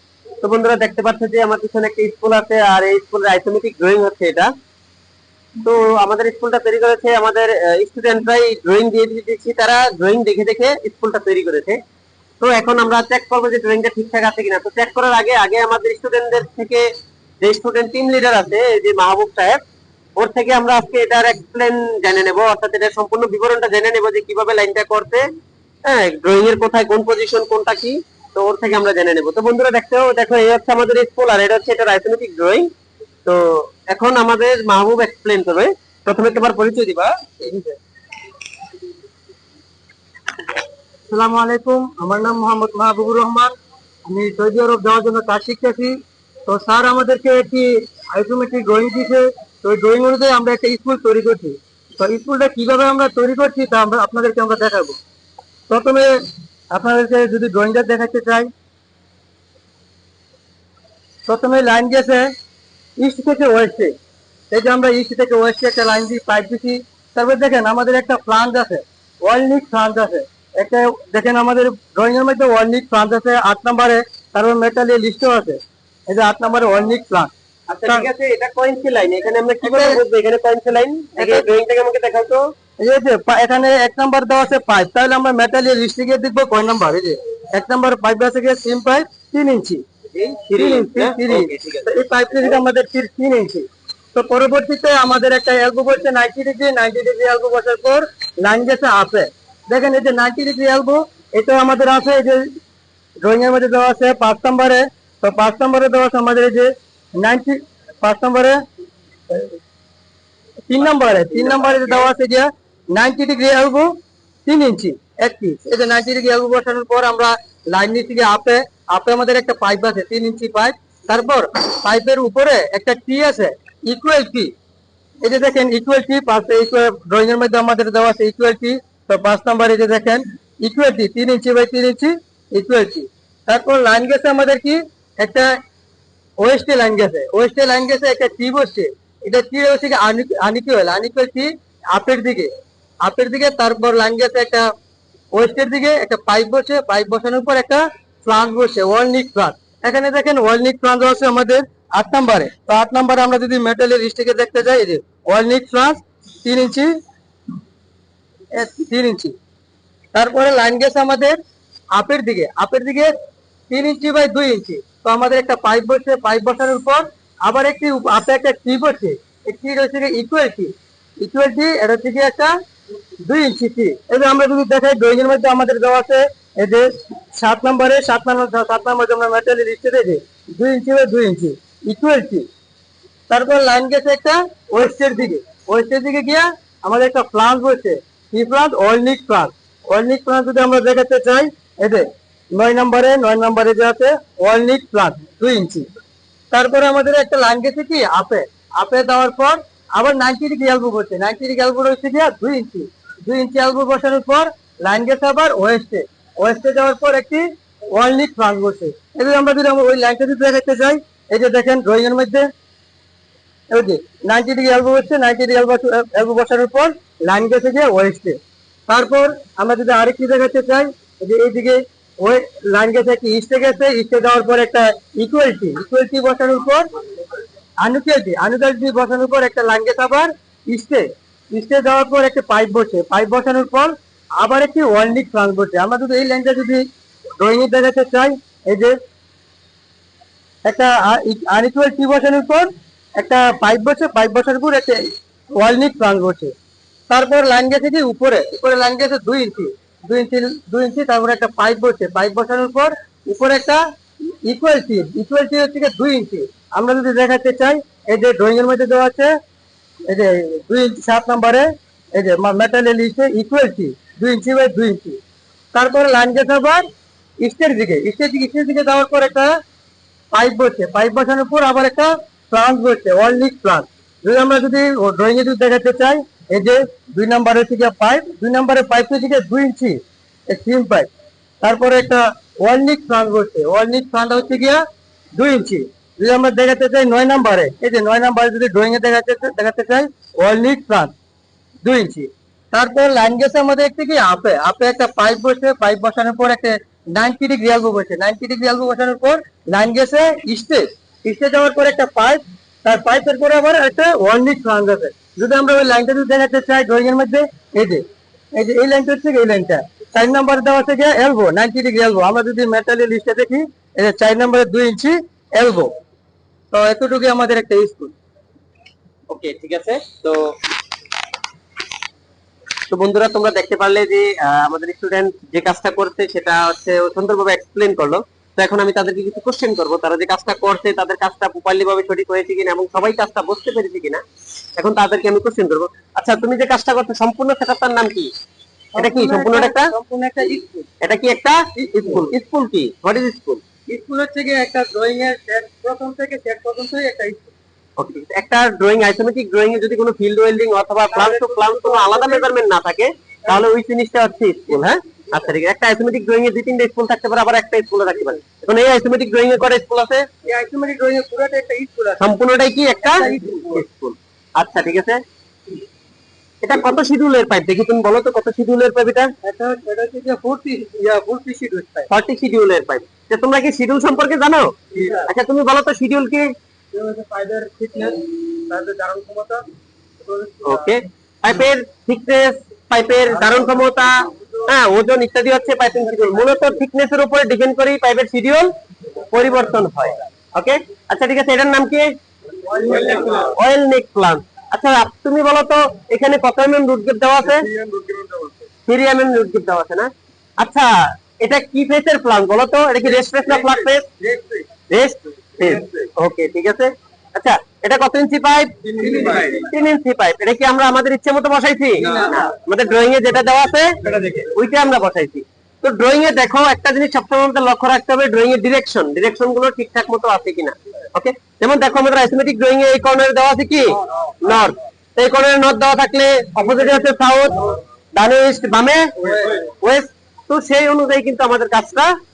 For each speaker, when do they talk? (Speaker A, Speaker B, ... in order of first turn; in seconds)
Speaker A: 0.4-4.5, 5.6-11.8, 12.4-16.9, 17.4-19.6, 20.1-25.2, 25.9-32.7, 33.2-37.1, 77.7-82.5, 90.1-91.9, 111.3-111.8, 319.3-320.5, 322.9-334.2, 334.8-338.3, 339.0-339.9, 341.0-343.6, 348.0-360.3, 362.2-365.2, 366.6-369.3, 372.1-376.5, 380.6-388.7, 389.3-392.1, 392.8-397.7, 398.9-404.1, 404.9-432.1
Speaker B: 37.4-37.8, 41.1-43.5, 44.0-55.0, 55.7-56.2, 56.7-58.5, 61.2-62.3, 63.0-63.9, 64.5-77.3, 79.6-80.0, 81.2-81.5, 82.8-89.8, 90.5-102.5, 103.2-108.6, 110.7-113.9, 114.5-124.5, 125.2-135.5, 136.4-142.5, 143.0-144.7, 145.3-156.9, 158.5-159.3, 160.1-161.4, 161.9-163.1, 163.7-172.5, 173.2-182.5, 183.3-195.8, 196.5-212.5, 213.7-226.9, 227.8-236.8, 237.4-238.9, 240.6-245.0, 245.6-246.5, 247.1-253.8, 254.4-259.3, 260.1-265.2, 265.7-266.8, 267.4-269.5, 270.3-281.1, 281.6-284.8, 285.3-291.1, 291.8-308.0, 308.5-315.9, 316.7-318.1, 338.9-340.9, 341.8-342.3, 343.9-347.5, 351.1-352.5, 360.4-362.3, 363.0-363.8, 369.4-372.1, 374.9-375.3, 376.9-379.6, 380.2-380.9, 383.3-383.9, 392.7-393.4, 397.7-398.5, 409.0-409.6, 429.2-429.6